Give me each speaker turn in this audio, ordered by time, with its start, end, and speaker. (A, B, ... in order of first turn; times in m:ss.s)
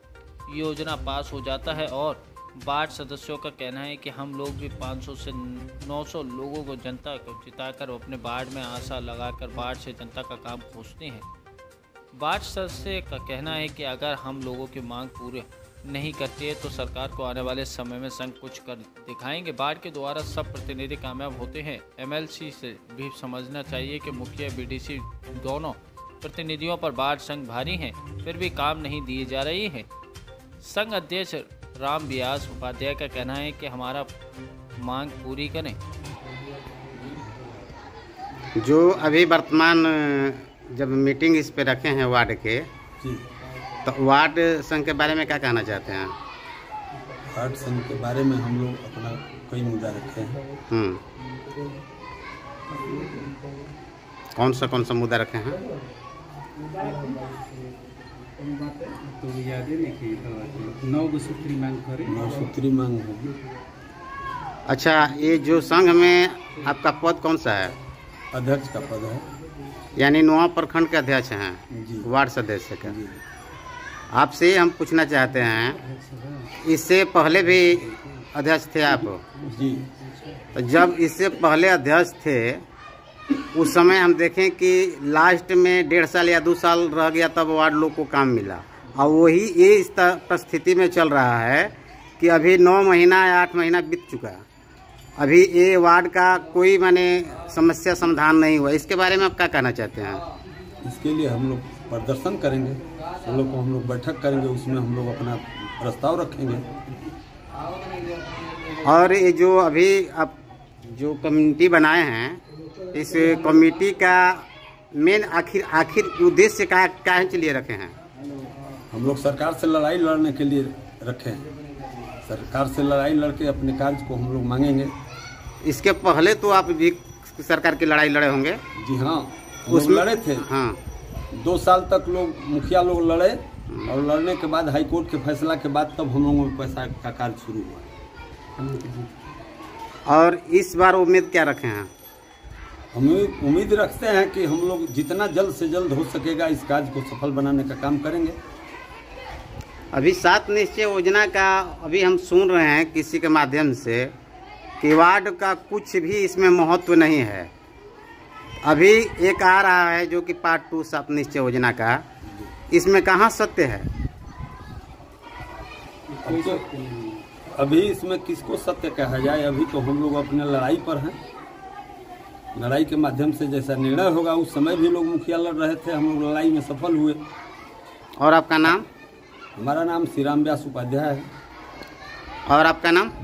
0:00.5-0:11.3 A
0:12.1-0:29.9 A
0:30.6-0:34.1 A
0:34.8-0:35.8 A
0:38.6-0:42.7 B
0:43.8-0:46.2 B
0:47.3-0:50.4 C
0:50.7-0:51.0 B
0:52.7-0:53.3 D
0:54.4-0:55.6 B
0:56.6-0:57.2 D
0:58.4-1:02.3 D
1:02.1-1:03.4 C
1:04.7-1:07.8 B
1:08.3-1:09.2 C
1:10.0-1:13.0 B
1:11.7-1:12.1 C
1:12.8-1:13.2 C
1:14.1-1:15.8 B
1:15.8-1:16.5 D
1:16.6-1:19.2 B
1:19.4-1:20.5 D
1:19.5-1:19.9 C
1:20.6-1:22.6 B
1:23.5-1:34.4 B
1:35.2-1:40.2 B
1:40.8-1:46.7 C
1:47.9-1:48.6 D
1:48.7-1:50.4 B
1:50.9-1:52.4 B
1:52.9-1:58.0 B
1:58.9-2:01.5 C
2:02.2-2:04.9 C
2:05.6-2:08.6 B
2:08.8-2:10.5 C
2:09.7-2:10.8 B
2:11.3-2:17.9 C
2:18.6-2:19.1 D
2:20.1-2:21.9 B
2:22.9-2:28.4 C
2:29.9-2:34.1 B
2:34.8-2:37.5 B
2:38.6-2:42.0 B
2:42.2-2:42.5 C
2:42.7-2:43.9 B
2:46.1-2:47.3 D
2:46.2-2:46.6 C
2:47.5-2:51.2 C
2:52.5-2:57.2 C
2:58.2-2:58.9 B
2:59.6-3:01.3 C
3:02.5-3:03.1 B